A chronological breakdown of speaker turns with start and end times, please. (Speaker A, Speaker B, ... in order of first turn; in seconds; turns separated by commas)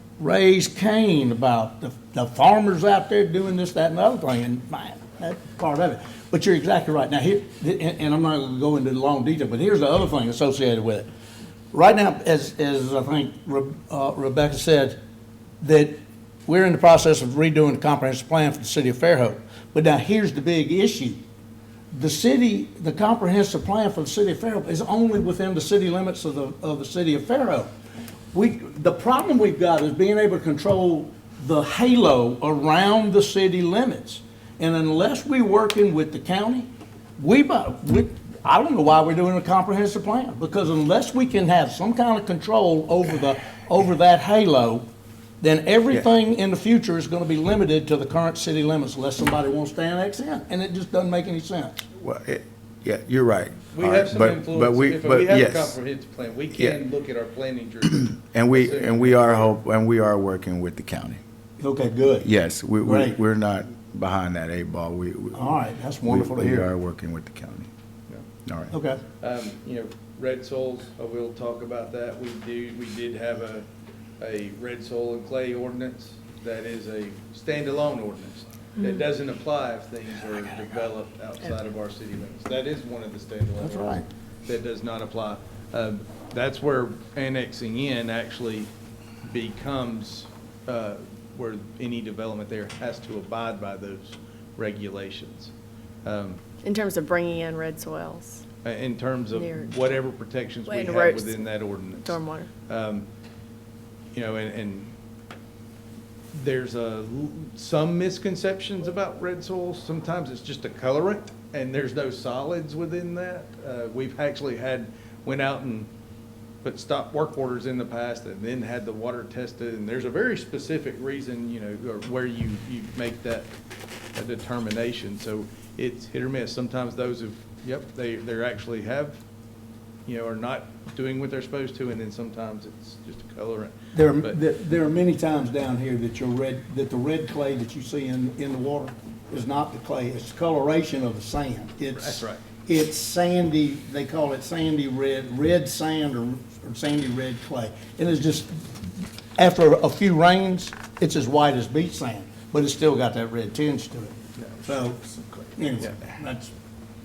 Speaker A: 0.2-11.1, Speaker A: 11.7-15.0, Speaker A: 15.6-21.2, Speaker A: 21.9-27.7, Speaker A: 28.3-44.8, Speaker A: 45.4-51.9, Speaker B: 51.9-55.8, Speaker C: 53.7-59.5, Speaker B: 56.5-56.8, Speaker B: 58.2-61.2, Speaker A: 61.6-62.3, Speaker B: 62.2-67.7, Speaker A: 62.8-63.2, Speaker A: 65.3-66.7, Speaker B: 68.5-68.7, Speaker A: 68.7-69.0, Speaker C: 69.2-73.7, Speaker C: 74.2-88.7, Speaker A: 83.6-84.0, Speaker C: 89.2-95.5, Speaker C: 96.0-96.4, Speaker D: 96.6-98.4, Speaker C: 98.6-103.1, Speaker D: 99.3-99.7, Speaker D: 100.7-102.5, Speaker C: 104.1-104.9, Speaker C: 106.3-115.9, Speaker C: 116.6-123.5, Speaker C: 124.1-129.2, Speaker C: 130.1-134.3, Speaker A: 133.9-156.5, Speaker C: 141.9-142.4, Speaker C: 154.4-154.9